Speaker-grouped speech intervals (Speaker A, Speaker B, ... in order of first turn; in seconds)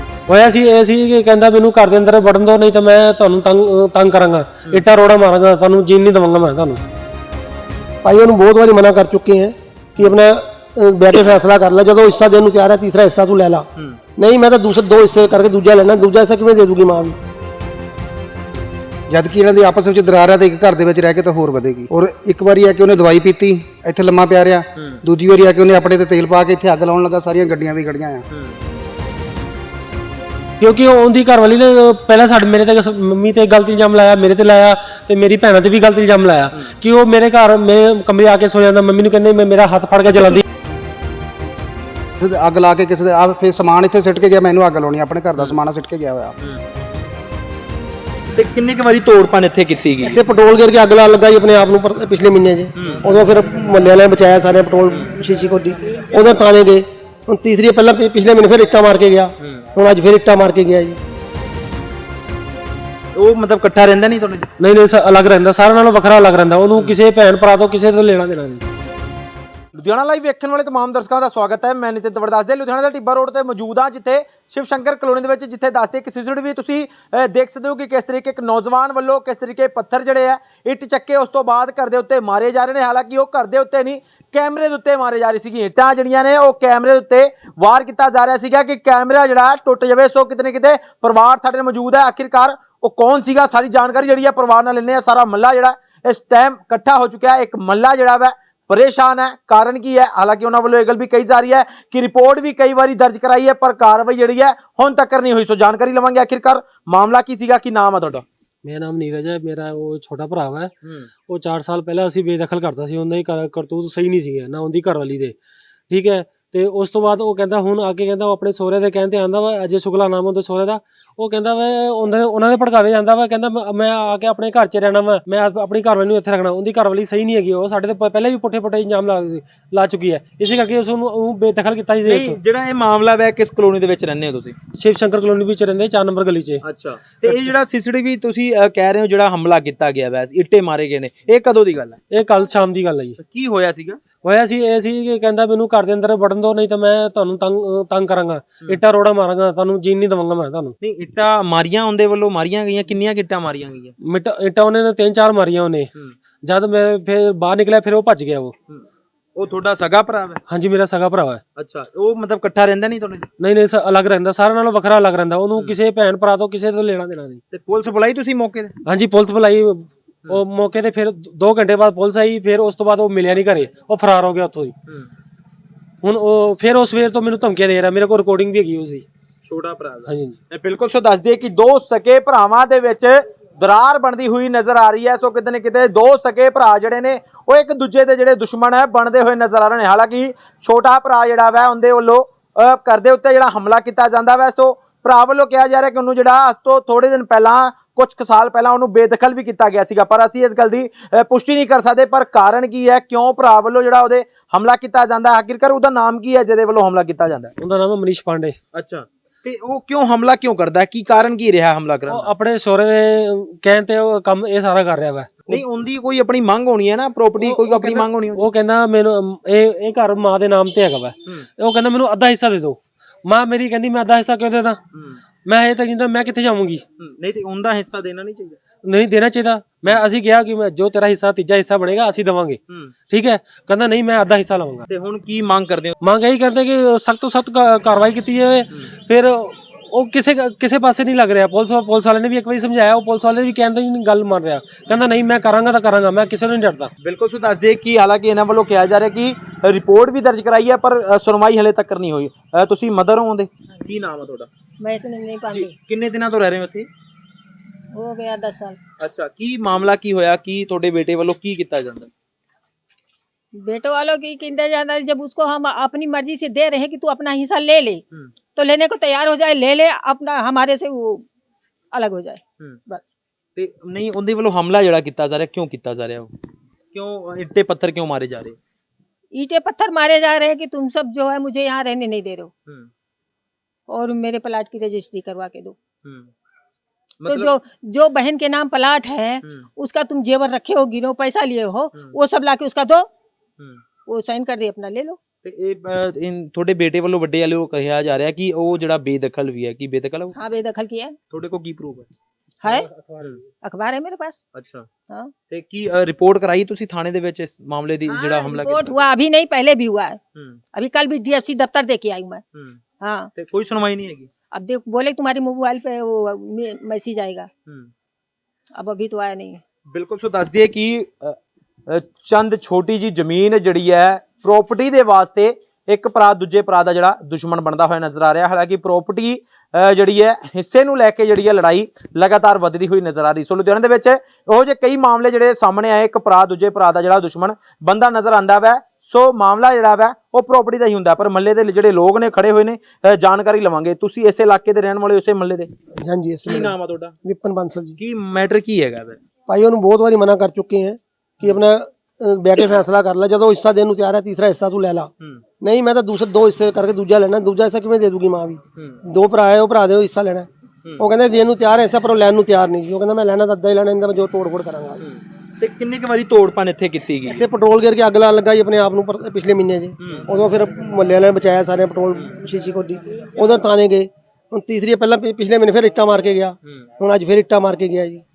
Speaker A: 0.3-6.8, 30.6-40.4, 64.6-68.6, 108.6-110.7, 111.3-115.3, 115.9-132.4, 134.8-136.6, 142.1-143.2, 144.2-150.8, 154.0-155.9, 156.4-158.5, 160.5-161.4, 163.4-167.4, 168.8-174.7, 176.0-179.1, 180.1-180.4, 207.6-208.6, 212.1-215.6, 217.4-224.8, 225.5-226.8, 228.8-232.6, 233.1-234.8, 236.0-246.9, 302.7-303.3
Speaker B: 8.0-17.2, 50.0-61.0, 346.0-347.9, 349.5-355.1, 355.6-360.5, 361.0-365.0, 367.2-378.2
Speaker C: 19.1-28.2, 42.2-46.3
Speaker D: 24.7-25.0, 28.3-28.6, 48.3-50.2, 52.8-53.0, 63.2-64.5, 69.8-108.2, 110.8-111.1, 132.1-134.6, 136.6-142.0, 143.2-144.0, 150.8-153.9, 158.7-160.4, 161.6-163.3, 167.5-168.8, 179.4-207.5, 208.7-212.3, 215.5-218.5, 224.9-225.2, 227.0-228.6, 234.9-236.0, 247.0-254.5, 255.5-256.9, 259.0-262.1, 273.6-276.3, 276.9-278.6, 286.0-286.3, 287.2-287.6, 295.4-300.4, 301.3-302.1, 304.6-304.9, 305.5-309.1, 313.4-314.3, 319.9-345.7, 346.4-347.2, 348.0-349.2, 365.0-367.4, 370.0-370.3, 376.6-376.9
Speaker E: 254.8-255.7, 257.9-258.8, 263.6-268.0, 268.6-271.2, 271.9-273.1, 279.3-282.5, 283.9-285.8, 287.3-293.1, 294.1-295.2, 300.4-301.1, 302.6-302.9, 303.6-304.4, 308.1-310.2, 310.7-312.4, 313.0-313.3, 314.5-317.5, 318.8-319.6